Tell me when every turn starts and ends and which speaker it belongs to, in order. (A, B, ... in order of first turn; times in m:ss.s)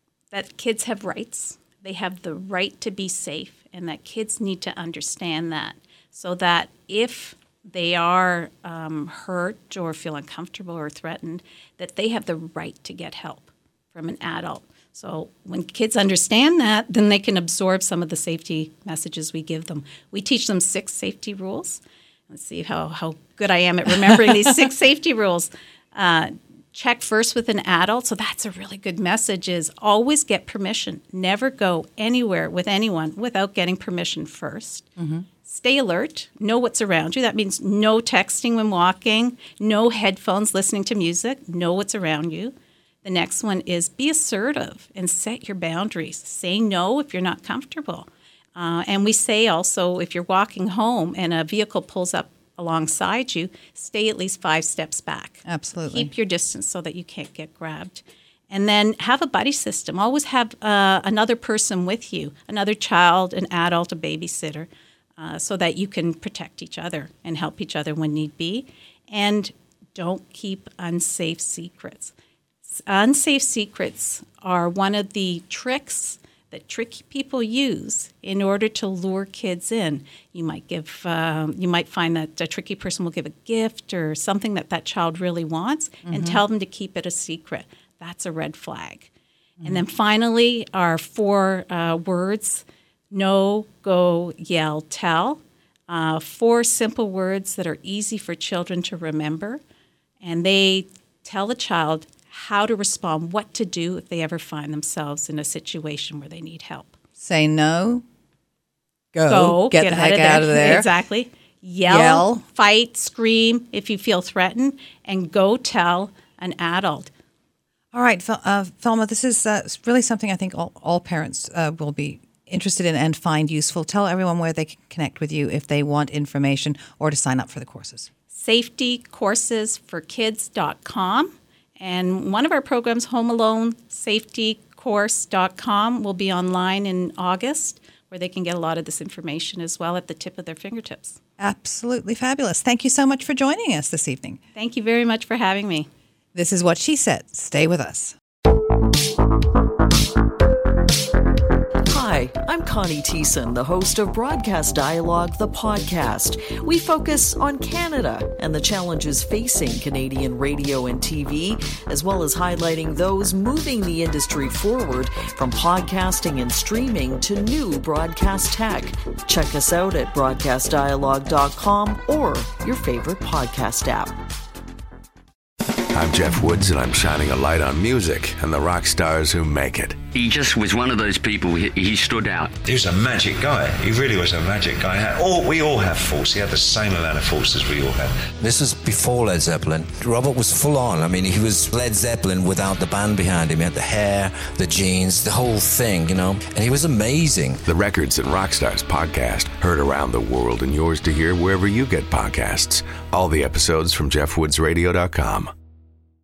0:00.3-0:34.9 A
0:35.0-0:35.2 B
0:35.4-1:29.1 A
0:55.4-0:56.1 B
1:26.0-1:26.4 B
1:29.6-1:39.6 A
1:40.2-1:46.9 A
1:47.2-1:48.0 B
1:49.1-1:50.9 B
1:49.3-1:57.1 A
1:51.8-1:52.4 B
1:57.9-2:08.1 B
2:08.3-2:21.2 A
2:21.4-2:24.4 B
2:24.5-2:25.9 A
2:26.3-2:28.2 B
2:31.9-2:54.1 C
2:55.9-3:00.0 D
3:00.1-3:02.5 E
3:02.6-3:08.4 F
3:08.4-3:17.6 G
3:17.7-3:25.5 D